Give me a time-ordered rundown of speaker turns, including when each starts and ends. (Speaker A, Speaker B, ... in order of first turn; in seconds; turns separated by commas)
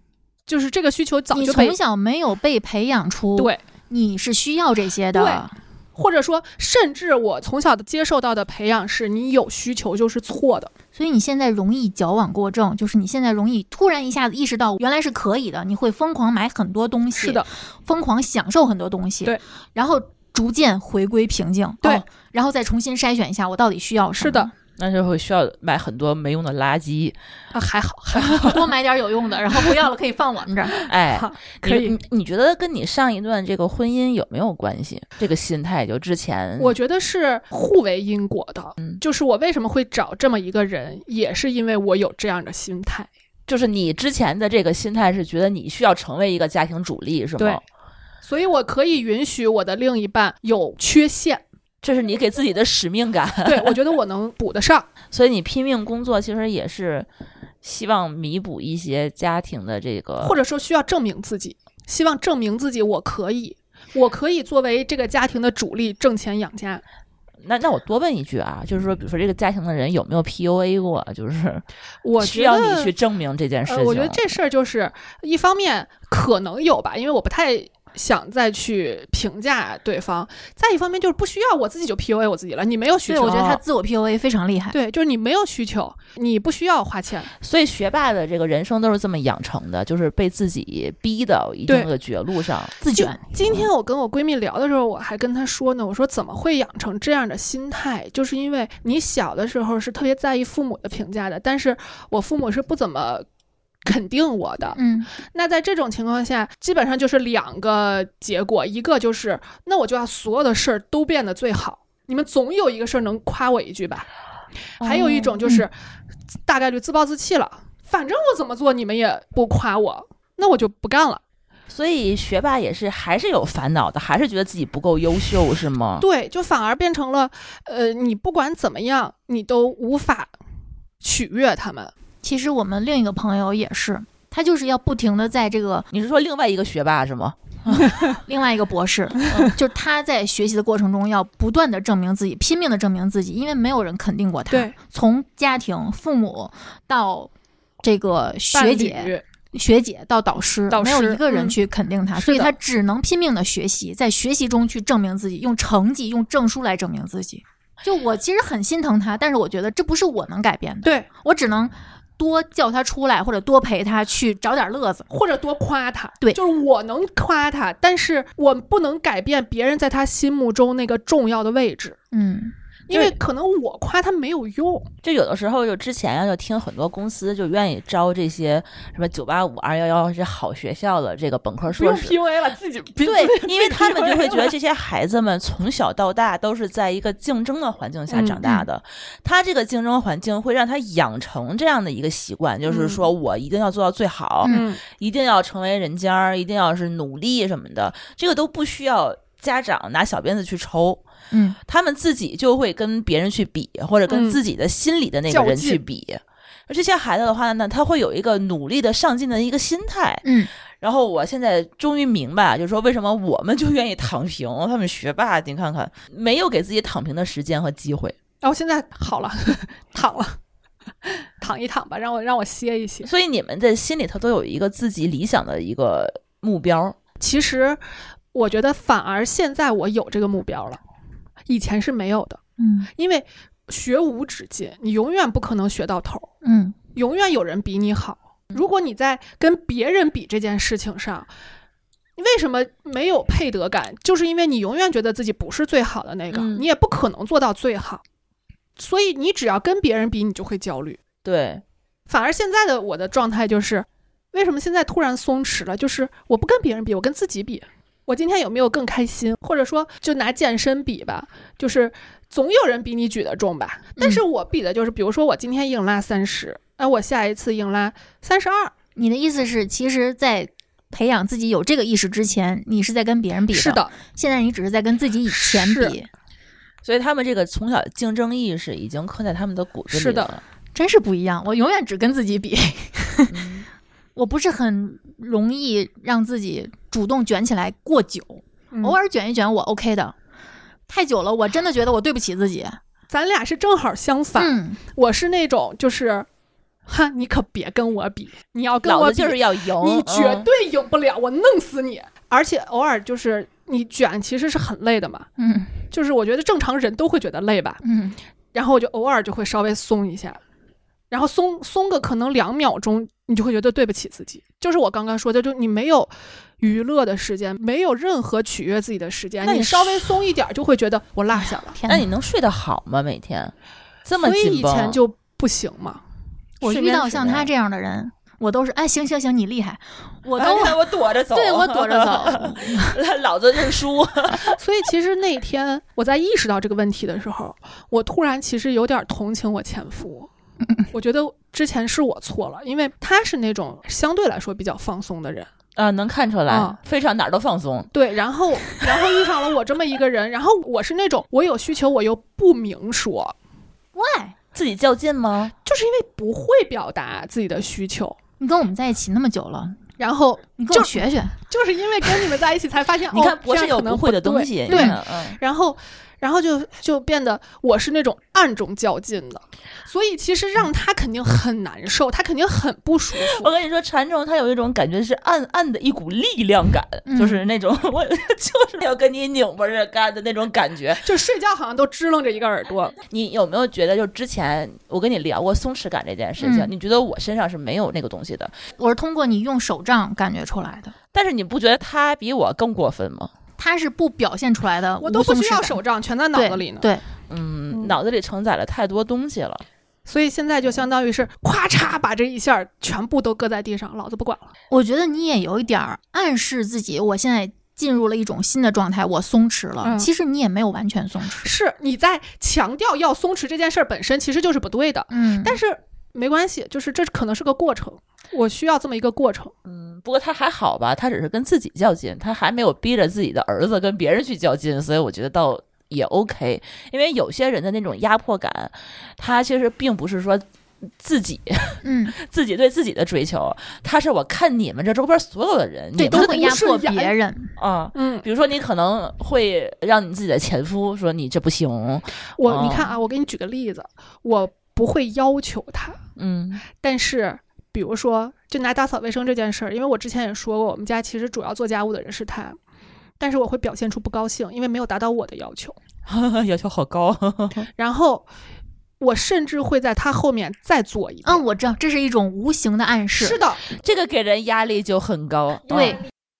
Speaker A: 0.5-1.8, Speaker B: 1.3-5.5, Speaker A: 5.1-10.7, Speaker B: 10.9-24.5, Speaker A: 17.2-17.5, Speaker A: 24.2-24.5, Speaker C: 24.8-27.2, Speaker A: 27.5-28.7, Speaker B: 28.3-30.7, Speaker A: 30.7-32.0, Speaker C: 30.9-36.8, Speaker A: 36.6-43.1, Speaker C: 43.5-47.6, Speaker A: 48.2-51.4, Speaker C: 51.8-53.8, Speaker A: 53.4-54.9, Speaker C: 55.1-57.1, Speaker C: 57.6-60.4, Speaker A: 60.2-66.8, Speaker C: 67.4-71.6, Speaker A: 72.0-72.9, Speaker C: 72.2-74.3, Speaker A: 73.7-83.6, Speaker B: 83.1-84.8, Speaker A: 84.7-87.3, Speaker C: 87.4-92.7, Speaker A: 91.7-91.9, Speaker B: 92.8-93.2, Speaker A: 92.9-103.3, Speaker A: 103.8-114.1, Speaker B: 104.8-105.1, Speaker A: 114.8-115.7, Speaker C: 114.8-115.3, Speaker A: 116.5-121.2, Speaker C: 121.7-126.0, Speaker A: 126.0-130.3, Speaker A: 131.0-131.9, Speaker B: 132.2-135.9, Speaker C: 135.9-137.8, Speaker B: 138.2-147.3, Speaker B: 147.8-165.0, Speaker A: 148.5-149.2, Speaker A: 150.7-151.6, Speaker A: 152.2-152.5, Speaker A: 165.1-172.0, Speaker B: 172.1-172.5, Speaker A: 172.9-174.9, Speaker C: 172.9-173.1, Speaker C: 175.0-182.2, Speaker A: 181.7-184.5, Speaker C: 183.0-201.0, Speaker A: 188.1-188.4, Speaker A: 192.7-193.1, Speaker A: 194.5-194.8, Speaker B: 201.3-201.6, Speaker C: 201.7-210.3, Speaker A: 204.1-204.4, Speaker A: 205.3-205.8, Speaker B: 210.2-210.5, Speaker C: 210.8-218.2, Speaker A: 218.4-220.4, Speaker A: 221.0-223.1, Speaker C: 223.0-227.0, Speaker A: 227.2-227.8, Speaker A: 228.3-230.8, Speaker A: 231.5-232.4, Speaker B: 232.6-232.9, Speaker A: 232.9-236.3, Speaker B: 236.4-236.7, Speaker A: 236.9-241.3, Speaker A: 242.2-248.0, Speaker C: 246.3-246.7, Speaker A: 248.8-251.0, Speaker C: 251.2-251.6, Speaker A: 252.1-268.7, Speaker B: 268.9-276.1, Speaker A: 273.5-273.9, Speaker A: 275.2-276.0, Speaker C: 276.8-280.4, Speaker A: 279.9-280.3, Speaker B: 280.7-283.4, Speaker C: 283.3-283.7, Speaker B: 284.1-290.1, Speaker A: 288.7-289.0, Speaker B: 290.9-292.8, Speaker A: 293.1-296.3, Speaker B: 294.4-294.8, Speaker A: 296.9-305.3, Speaker C: 298.8-300.5, Speaker B: 305.4-305.7, Speaker A: 305.9-307.8, Speaker B: 307.8-308.2, Speaker A: 308.5-310.4, Speaker A: 311.1-321.8, Speaker C: 319.4-320.1, Speaker B: 321.4-322.1, Speaker C: 321.9-323.5, Speaker C: 324.0-325.0, Speaker A: 324.2-326.0, Speaker B: 326.6-332.9, Speaker C: 326.6-327.5, Speaker C: 330.4-334.6, Speaker A: 334.4-340.3, Speaker A: 340.9-345.5, Speaker C: 345.8-347.9, Speaker A: 346.5-346.8, Speaker A: 347.9-353.3, Speaker B: 353.9-354.3, Speaker C: 354.5-355.5, Speaker A: 355.6-358.2, Speaker B: 358.4-359.8, Speaker A: 360.0-373.5, Speaker B: 360.6-361.4, Speaker C: 363.1-365.4, Speaker B: 364.7-364.9, Speaker C: 373.2-381.0, Speaker B: 377.1-377.4, Speaker A: 381.0-383.0, Speaker C: 383.1-388.5, Speaker B: 386.4-386.7, Speaker B: 388.8-390.9, Speaker C: 391.1-393.3, Speaker B: 393.6-395.8, Speaker A: 395.0-396.9, Speaker B: 396.3-397.0, Speaker C: 397.3-399.6, Speaker A: 400.1-404.5, Speaker B: 404.7-411.5, Speaker A: 409.8-410.1, Speaker A: 411.4-419.5, Speaker B: 415.1-415.6, Speaker C: 419.6-436.5, Speaker B: 431.8-432.1, Speaker B: 435.9-437.5, Speaker A: 436.1-437.1, Speaker C: 437.6-442.9, Speaker A: 437.9-438.2, Speaker A: 442.4-446.0, Speaker C: 446.2-446.6, Speaker A: 446.8-452.6, Speaker A: 453.2-455.8, Speaker C: 456.1-457.7, Speaker A: 457.8-458.3, Speaker A: 459.0-461.4, Speaker B: 461.2-463.4, Speaker A: 463.2-463.7, Speaker C: 463.7-466.0, Speaker B: 465.7-466.0